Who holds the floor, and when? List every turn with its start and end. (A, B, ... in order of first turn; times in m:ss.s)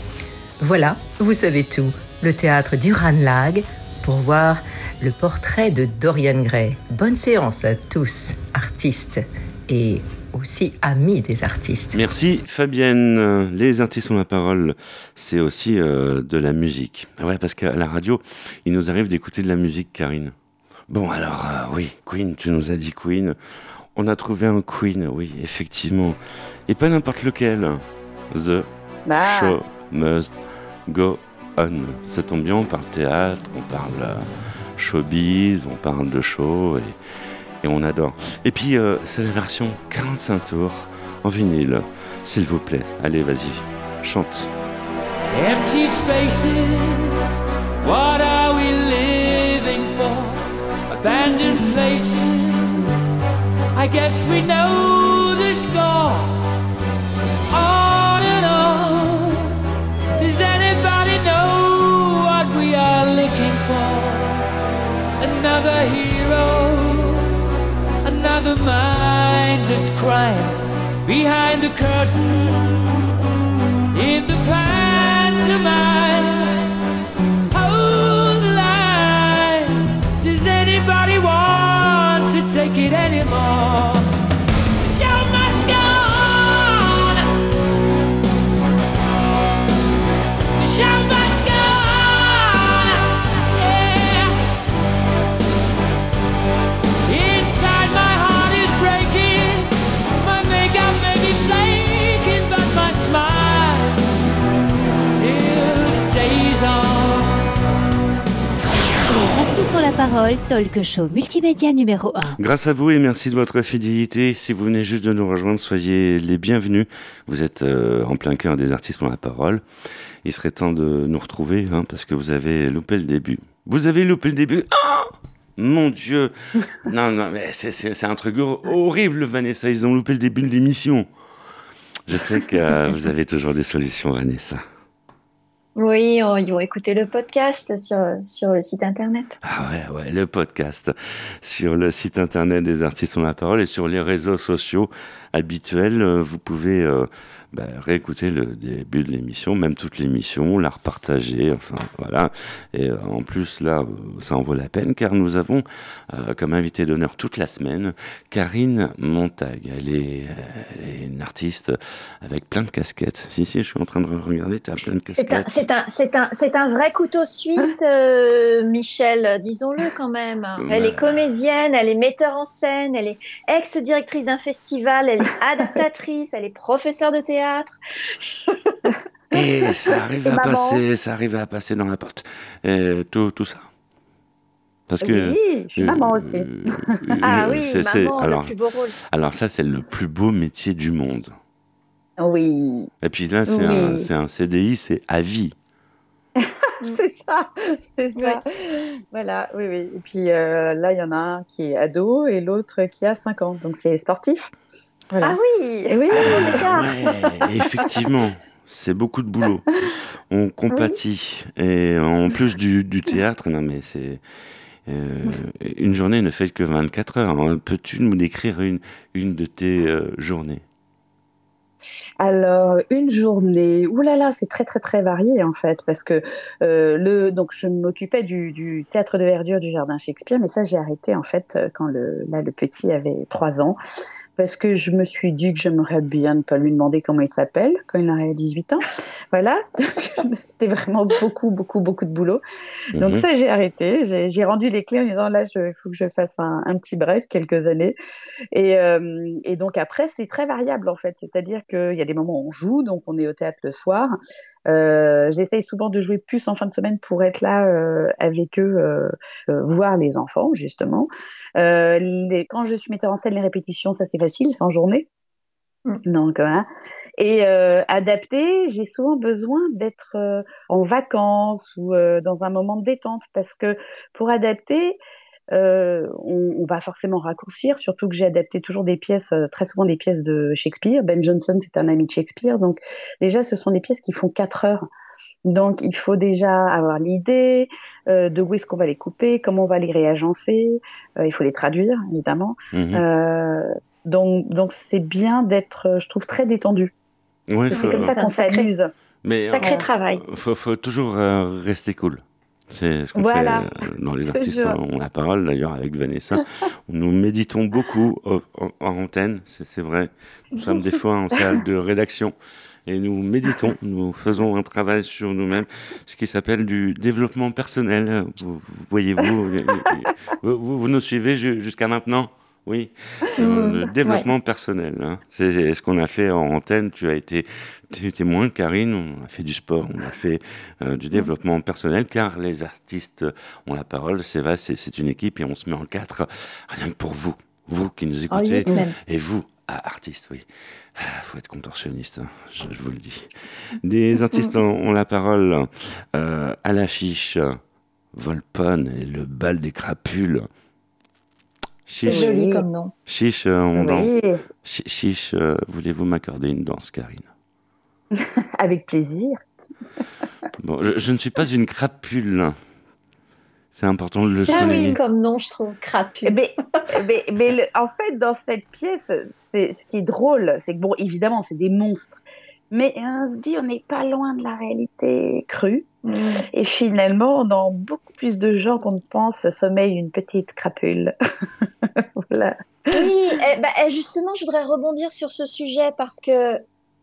0:00.6-0:12.0 A
0:11.9-0:20.4 B
0:20.9-0:23.4 B
0:24.0-0:28.7 B
0:29.1-0:29.6 C
0:29.2-0:30.3 B
0:30.9-0:37.0 B
0:37.6-0:44.5 B
0:45.3-0:53.2 D
0:53.8-0:56.4 D
0:57.5-0:59.6 D
1:00.2-1:04.4 D
1:05.2-1:07.4 D
1:08.0-1:13.0 D
1:13.9-1:16.7 D
1:17.5-1:24.2 D
1:24.8-1:27.3 D
1:30.6-1:34.6 D
1:37.1-1:44.0 D
1:44.8-1:47.4 D
1:49.1-1:52.4 E
1:52.4-1:59.6 B
2:00.2-2:11.1 B
2:12.1-2:14.6 B
2:15.8-2:19.4 F
2:19.4-2:45.6 B
2:45.1-2:58.5 F
2:50.6-2:51.2 B
2:59.3-3:03.7 B
3:00.3-3:00.8 C
3:04.9-3:08.5 B
3:05.0-3:06.5 C
3:07.2-3:08.9 F
3:09.1-3:11.4 B
3:12.2-3:12.9 C
3:13.0-3:15.6 B
3:13.5-3:14.1 C
3:16.4-3:24.5 C
3:18.2-3:18.4 F
3:25.2-3:27.9 F
3:25.9-3:26.6 C
3:26.4-3:29.8 B
3:30.3-3:34.2 B
3:30.7-3:31.0 F
3:34.9-3:40.6 B
3:42.2-3:53.8 C
3:54.4-4:02.4 C
4:03.0-4:03.2 B
4:03.0-4:08.0 C
4:08.5-4:14.2 C
4:14.7-4:25.1 C
4:26.1-4:26.7 C
4:27.2-4:35.0 C
4:35.5-4:44.9 C
4:45.5-4:56.9 C
4:52.7-4:53.0 B
4:57.5-4:58.2 B
4:57.7-4:58.7 F
4:57.7-4:58.9 C
4:59.2-5:12.4 B
4:59.5-5:00.2 F
5:03.2-5:03.6 C
5:04.4-5:04.7 C
5:12.9-5:43.3 B
5:23.4-5:24.3 F
5:38.3-5:39.0 F
5:43.8-5:47.6 B
5:48.1-5:50.5 B
5:51.9-5:52.3 B
5:52.0-5:52.9 F
5:52.0-5:52.6 C
5:53.1-5:54.1 B
5:53.8-5:54.4 C
5:54.6-5:57.3 B
5:58.1-5:59.4 C
6:00.6-6:02.6 B
6:03.7-6:05.0 B
6:04.4-6:06.8 F
6:06.2-6:12.2 C
6:12.7-6:15.9 C
6:16.1-6:16.4 F
6:16.5-6:21.1 C
6:22.0-6:23.1 C
6:22.9-6:26.6 F